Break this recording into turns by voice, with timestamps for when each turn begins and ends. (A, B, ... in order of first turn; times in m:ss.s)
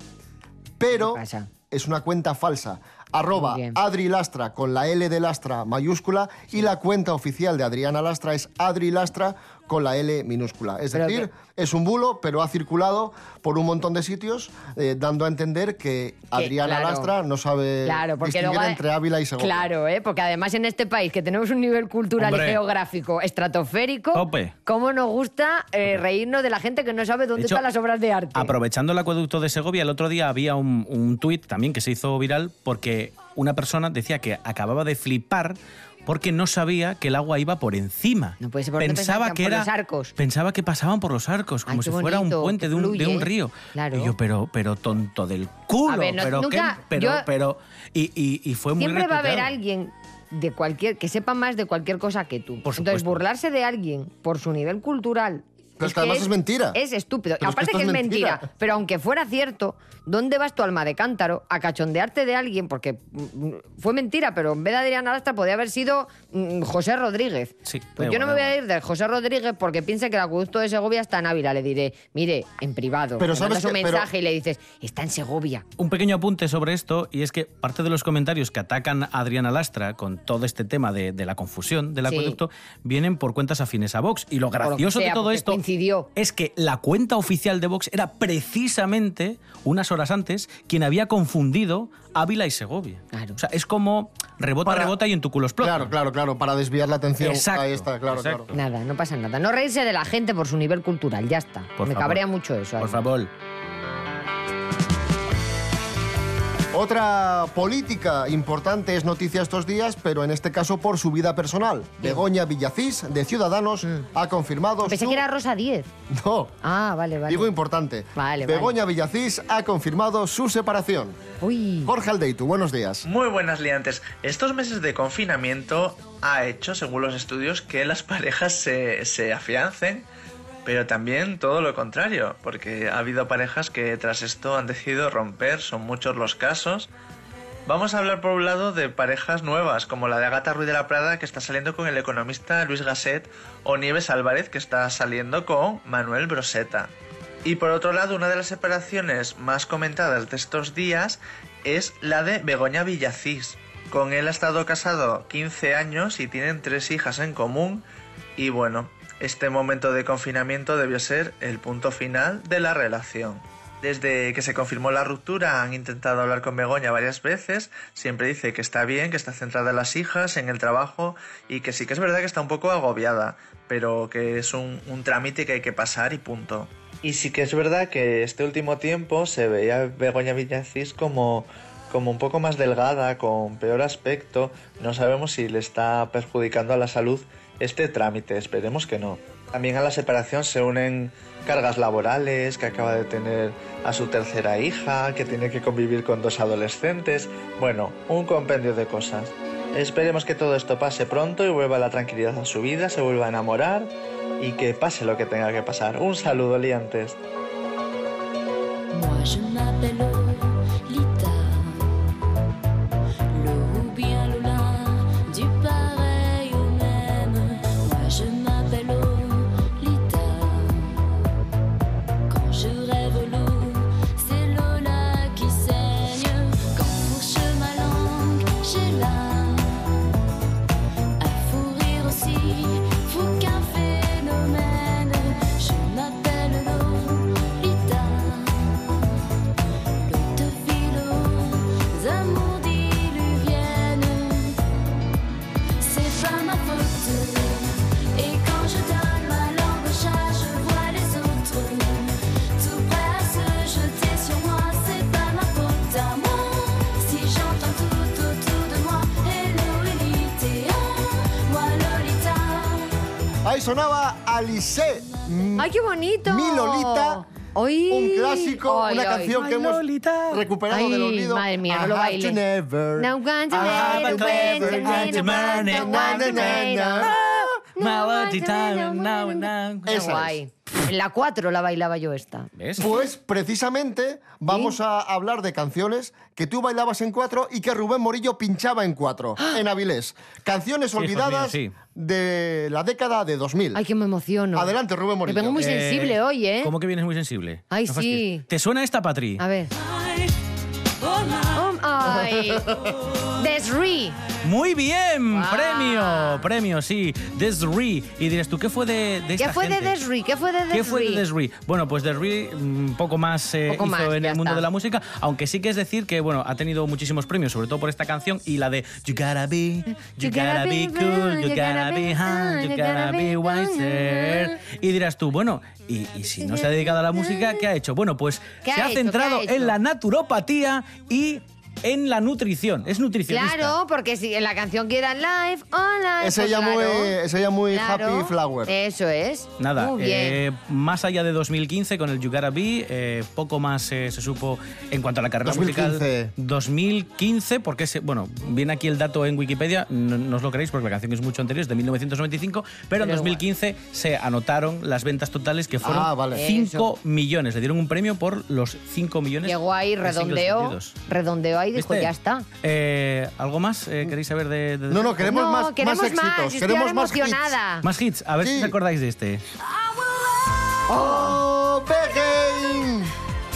0:00.8-0:19.7 A
0:00.9-0:01.5 B
0:03.3-0:03.8 B
0:10.9-0:11.3 B
0:16.4-0:17.1 B
0:17.8-0:18.8 B
0:19.4-0:28.5 B
0:22.2-0:22.6 C
0:24.1-0:24.5 C
0:27.4-0:27.6 C
0:28.3-0:49.5 C
0:38.4-0:40.1 B
0:41.7-0:44.1 B
0:45.8-0:47.2 B
0:48.8-1:15.6 B
0:52.6-0:53.2 C
0:55.8-0:56.8 A
0:57.4-0:58.4 A
1:07.6-1:08.5 C
1:13.2-1:14.1 A
1:15.8-1:25.6 C
1:22.1-1:22.4 B
1:24.6-1:26.1 B
1:26.2-1:35.9 C
1:34.6-1:35.0 A
1:35.6-1:38.5 A
1:37.2-1:38.5 C
1:38.5-1:43.0 B
1:41.8-1:42.2 C
1:42.8-1:43.3 C
1:46.7-1:55.2 A
1:54.8-1:55.9 B
1:56.1-1:56.6 A
1:56.6-1:57.5 B
1:57.3-2:01.2 A
1:58.2-1:58.7 B
2:01.4-2:01.9 B
2:01.8-2:03.0 A
2:03.0-2:10.1 D
2:10.6-2:16.9 D
2:17.6-2:26.9 D
2:27.4-2:37.8 D
2:38.4-3:27.2 D
3:28.9-3:31.9 E
3:33.3-3:41.0 E
3:42.3-3:49.9 E
3:51.2-3:58.9 E
4:00.0-4:04.6 E
4:05.8-4:23.0 E
4:23.4-4:25.7 A
4:25.6-4:29.3 B
4:26.2-4:27.2 A
4:27.9-4:37.2 A
4:29.3-4:30.4 C
4:30.7-4:32.4 B
4:33.0-4:42.5 B
4:33.5-4:40.1 C
4:39.8-4:40.4 A
4:42.6-4:42.8 C
4:42.8-4:53.8 A
4:44.5-4:44.7 B
4:51.0-4:51.7 C
4:53.7-4:56.7 B
4:54.5-4:55.6 A
4:55.6-4:59.4 C
4:57.7-4:58.4 B
4:59.4-4:59.7 B
5:01.5-5:02.8 B
5:03.4-5:04.2 B
5:04.4-5:10.0 C
5:05.3-5:06.4 B
5:09.4-5:11.2 B
5:10.7-5:33.7 C
5:13.7-5:14.6 B
5:20.2-5:24.5 B
5:26.4-5:27.6 B
5:28.6-5:29.8 B
5:33.3-5:37.1 B
5:36.2-5:38.7 A
5:37.7-5:40.4 B
5:39.6-6:00.9 C
5:45.4-5:46.3 A
5:53.0-5:53.4 B
5:55.8-5:56.4 A
5:56.3-5:56.9 B
5:59.4-6:02.4 B
6:01.7-6:02.1 C
6:02.6-6:05.3 C
6:04.9-6:07.5 A
6:05.2-6:07.8 B
6:07.8-6:09.4 C
6:08.4-6:08.7 A
6:10.9-6:11.4 B
6:10.9-6:13.1 A